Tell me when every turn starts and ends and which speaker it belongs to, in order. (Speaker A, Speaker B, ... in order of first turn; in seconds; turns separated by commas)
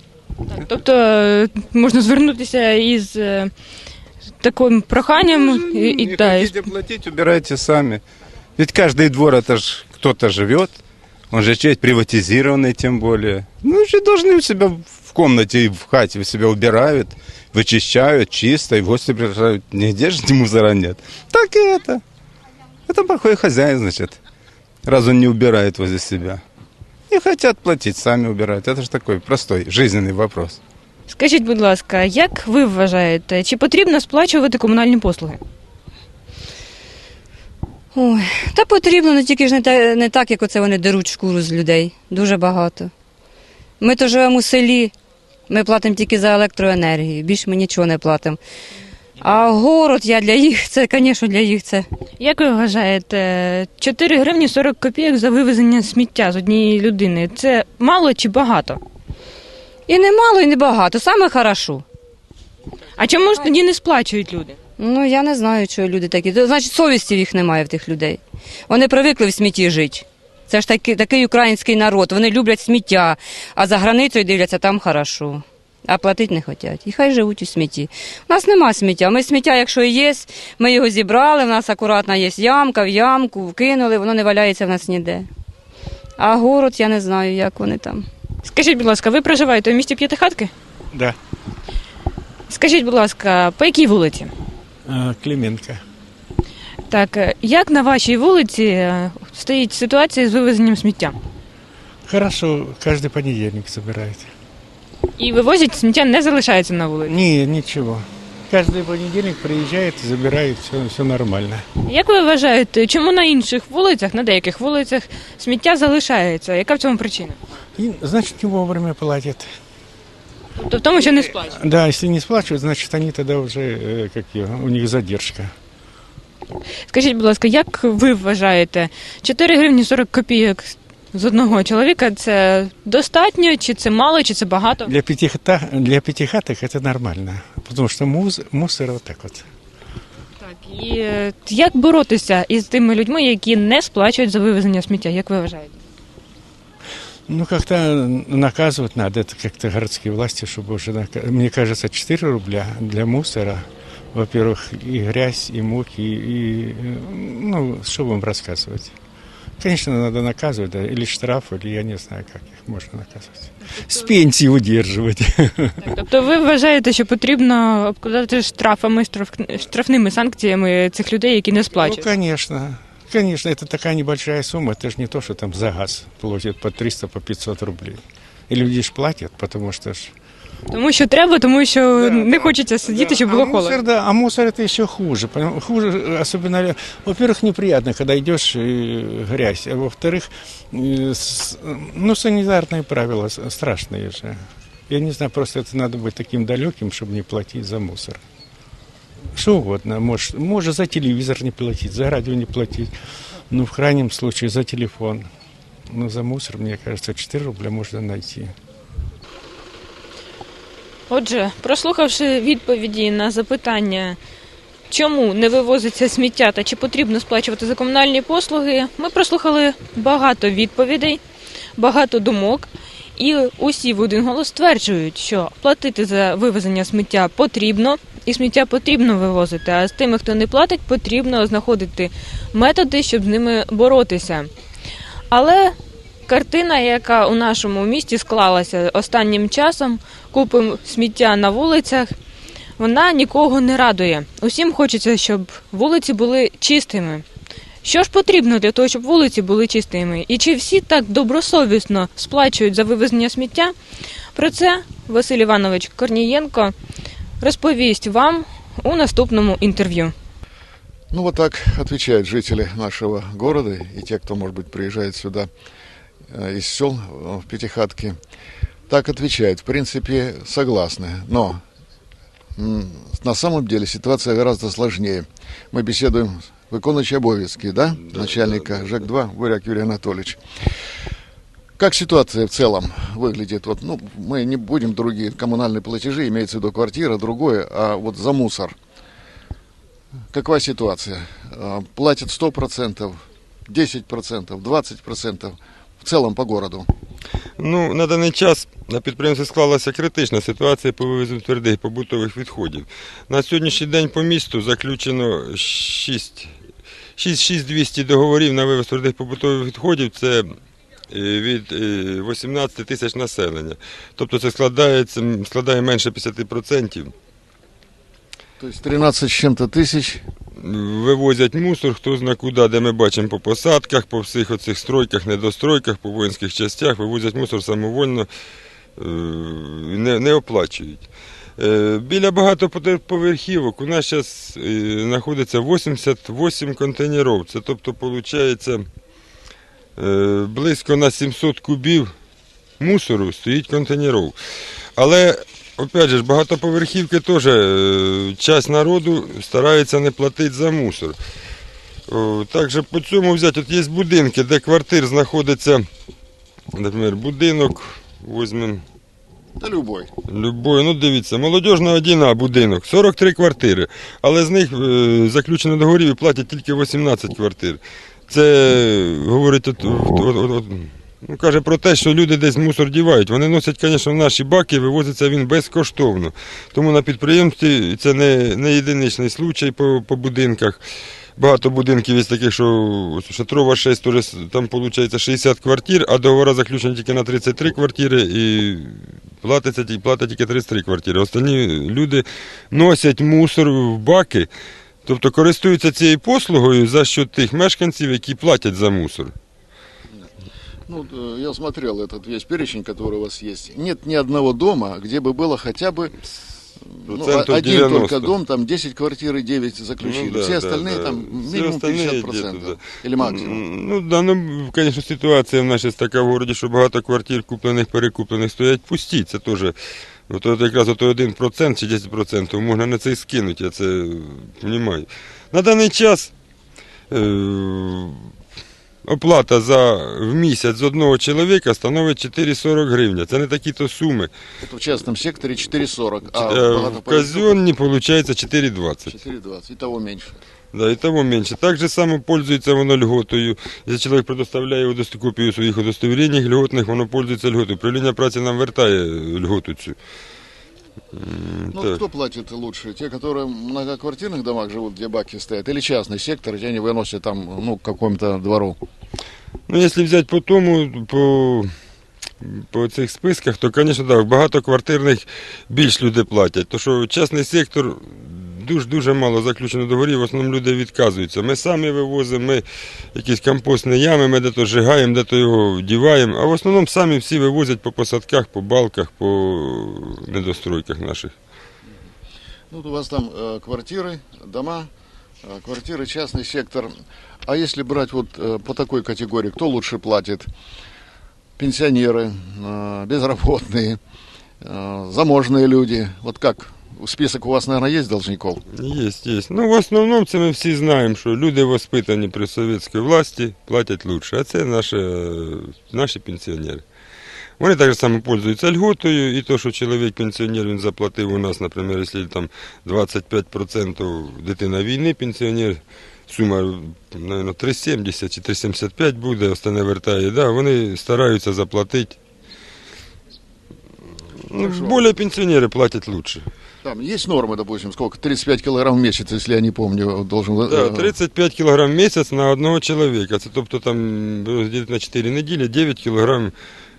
Speaker A: 0.5-3.5, Speaker A: 4.4-6.6, Speaker B: 5.2-8.0, Speaker B: 8.6-10.8, Speaker B: 11.3-22.0, Speaker B: 22.9-24.2, Speaker B: 24.8-26.4, Speaker B: 27.1-30.6, Speaker A: 31.1-35.4, Speaker C: 37.9-42.9, Speaker C: 43.8-44.9, Speaker C: 45.5-48.4, Speaker C: 49.2-51.9, Speaker A: 52.2-58.8, Speaker C: 59.9-61.8, Speaker A: 63.0-64.6, Speaker C: 64.8-85.3, Speaker C: 86.2-88.0, Speaker A: 88.4-90.5, Speaker D: 90.9-91.2, Speaker A: 92.5-94.3, Speaker D: 94.8-95.8, Speaker A: 96.9-101.2, Speaker D: 102.1-104.3, Speaker A: 105.2-107.1, Speaker D: 107.0-111.6, Speaker A: 111.8-117.4, Speaker D: 117.8-119.5, Speaker A: 120.6-121.5, Speaker D: 121.5-125.5, Speaker A: 126.9-134.9, Speaker D: 134.8-139.4, Speaker A: 140.4-145.8, Speaker D: 147.3-158.9, Speaker D: 159.6-166.0, Speaker A: 165.9-172.1, Speaker D: 171.8-180.1, Speaker A: 180.7-183.8, Speaker D: 182.1-198.2, Speaker D: 199.3-202.9, Speaker D: 203.5-205.3, Speaker D: 205.9-208.5, Speaker A: 211.1-214.2, Speaker A: 214.9-221.2, Speaker A: 221.8-234.5, Speaker A: 235.3-242.1, Speaker A: 242.8-247.2, Speaker A: 247.8-253.7, Speaker A: 254.3-256.7, Speaker A: 257.4-260.1, Speaker E: 261.1-265.5, Speaker E: 266.3-268.2, Speaker E: 268.9-271.6, Speaker E: 272.6-280.4, Speaker F: 278.1-279.0, Speaker E: 281.8-288.7, Speaker E: 290.3-296.9, Speaker F: 297.6-306.5, Speaker F: 307.2-310.5, Speaker F: 311.1-317.1, Speaker E: 318.6-320.2, Speaker F: 320.6-328.3, Speaker F: 329.0-331.1, Speaker F: 331.6-338.9, Speaker F: 340.0-342.1, Speaker F: 342.8-344.4, Speaker F: 345.0-351.2, Speaker F: 352.1-355.9, Speaker F: 356.7-358.8, Speaker E: 359.6-360.1, Speaker F: 360.3-380.8, Speaker F: 381.4-394.5, Speaker F: 395.0-399.3, Speaker E: 400.9-406.1, Speaker E: 406.9-413.6, Speaker F: 407.1-408.3, Speaker F: 410.0-419.7, Speaker F: 420.3-426.3, Speaker F: 427.1-428.3, Speaker F: 429.0-434.3, Speaker E: 434.6-437.6, Speaker F: 436.3-439.2, Speaker E: 439.1-440.4, Speaker F: 440.7-449.9, Speaker F: 451.1-452.0, Speaker E: 451.7-458.8, Speaker F: 459.7-461.7, Speaker F: 462.4-481.3, Speaker E: 482.7-484.9, Speaker E: 485.4-486.9, Speaker E: 487.4-490.5, Speaker E: 491.6-494.0, Speaker E: 494.6-498.6, Speaker F: 498.7-506.8, Speaker F: 507.6-522.1, Speaker F: 524.5-526.5, Speaker E: 524.5-525.1, Speaker E: 526.8-531.1, Speaker F: 530.7-536.5